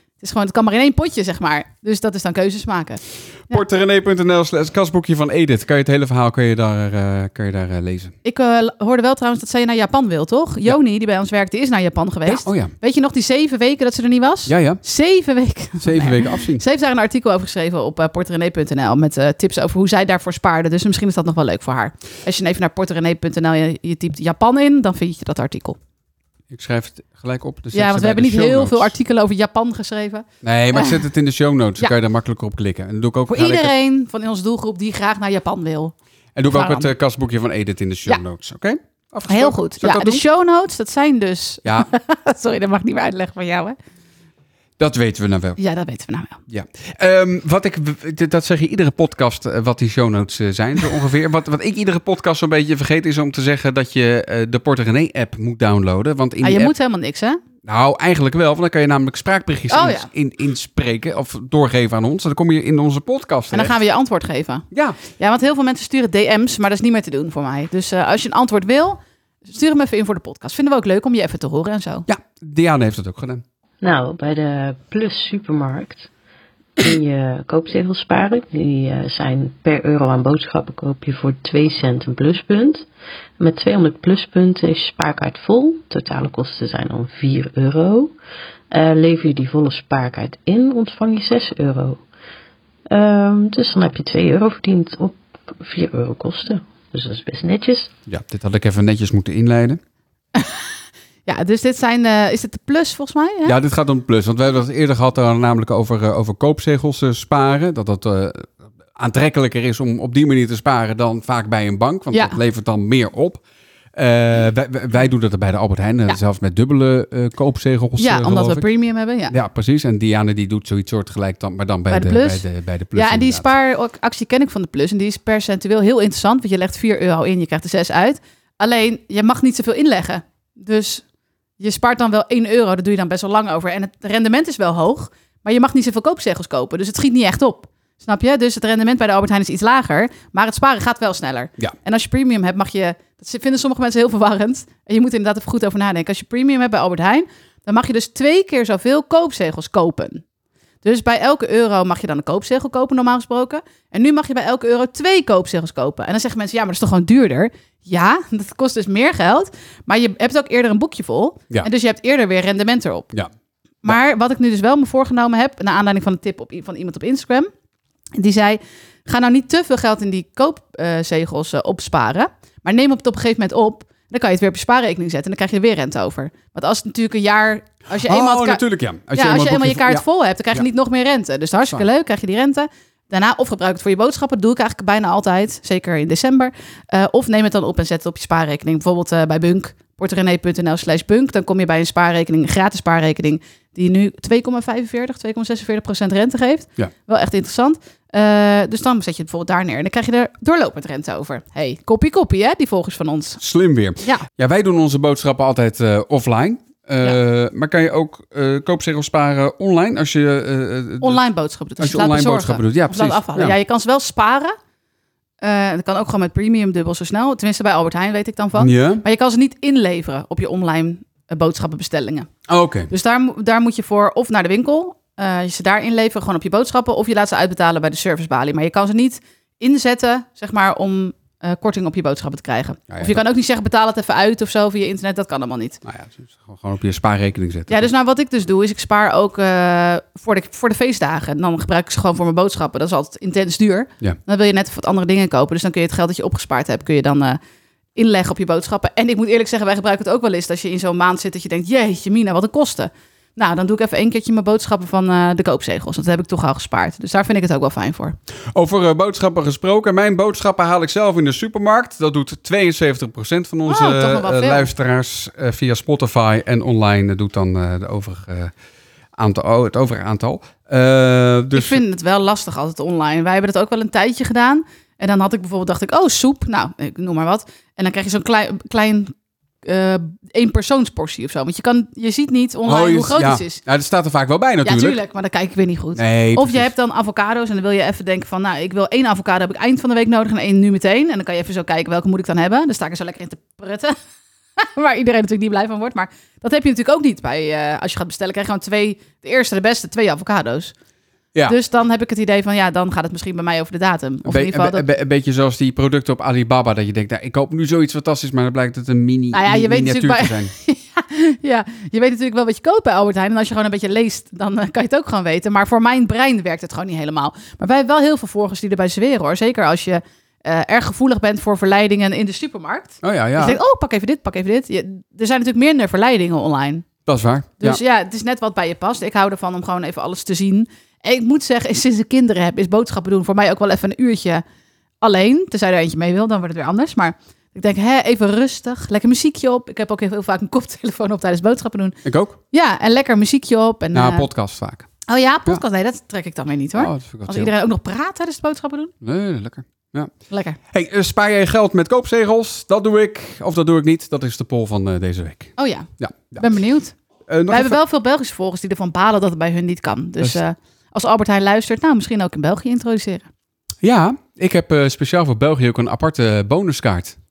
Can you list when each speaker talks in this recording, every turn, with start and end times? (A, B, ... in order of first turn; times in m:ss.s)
0:00.2-0:03.6 A
0:03.5-0:08.1 B
0:08.2-0:25.8 A
0:12.2-0:12.7 B
0:14.5-0:14.8 B
0:15.8-0:16.6 B
0:26.5-0:28.9 B
0:27.7-0:31.0 A
0:30.4-0:33.7 B
0:33.3-0:35.9 A
0:36.4-0:40.2 B
0:36.5-0:36.9 A
0:39.3-0:43.8 A
0:44.8-0:45.6 B
0:45.6-0:46.4 A
0:46.5-0:56.7 B
0:56.4-0:57.4 A
0:57.6-1:03.7 B
0:59.7-1:00.1 A
1:03.5-1:12.1 A
1:04.7-1:05.0 B
1:12.1-1:13.4 B
1:13.8-1:16.1 C
1:16.8-1:22.8 C
1:23.4-1:28.1 C
1:28.7-1:32.0 C
1:32.9-1:37.9 C
1:38.1-1:39.8 B
1:40.4-1:40.6 A
1:41.2-1:43.5 A
1:43.4-1:53.4 B
1:52.1-1:52.4 A
1:54.0-1:58.6 B
1:58.0-1:59.4 A
1:59.3-2:03.5 B
2:01.9-2:11.0 A
2:11.6-2:30.2 A
2:30.8-2:43.1 A
2:43.8-2:47.5 A
2:48.2-3:23.4 A
2:57.9-3:00.6 B
3:23.4-3:31.2 B
3:31.0-3:34.5 A
3:31.8-3:33.6 B
3:35.4-3:42.3 A
3:38.6-3:39.0 B
3:42.5-3:42.9 B
3:42.9-3:55.8 A
3:52.9-3:53.2 B
3:55.8-3:57.9 B
3:57.7-4:07.4 A
4:07.9-4:18.2 A
4:18.5-4:28.5 B
4:23.6-4:24.7 A
4:29.2-4:31.8 B
4:31.5-4:43.6 A
4:42.6-4:45.0 B
4:44.6-4:53.9 A
4:46.0-4:46.7 B
4:54.6-5:00.7 A
5:01.5-5:04.9 A
5:04.2-5:10.5 B
5:09.3-5:26.8 A
5:23.0-5:23.6 B
5:27.0-5:27.8 B
5:27.6-5:34.4 A
5:35.0-5:42.0 A
5:42.0-5:42.4 B
5:42.5-5:44.3 A
5:43.9-5:44.9 B
5:45.1-5:48.9 A
5:46.7-5:47.5 B
5:49.0-5:50.1 B
5:50.3-5:50.6 A
5:50.7-5:56.4 B
5:55.6-5:56.9 A
5:57.3-5:57.8 B
5:57.5-6:03.3 A
6:03.8-6:07.2 B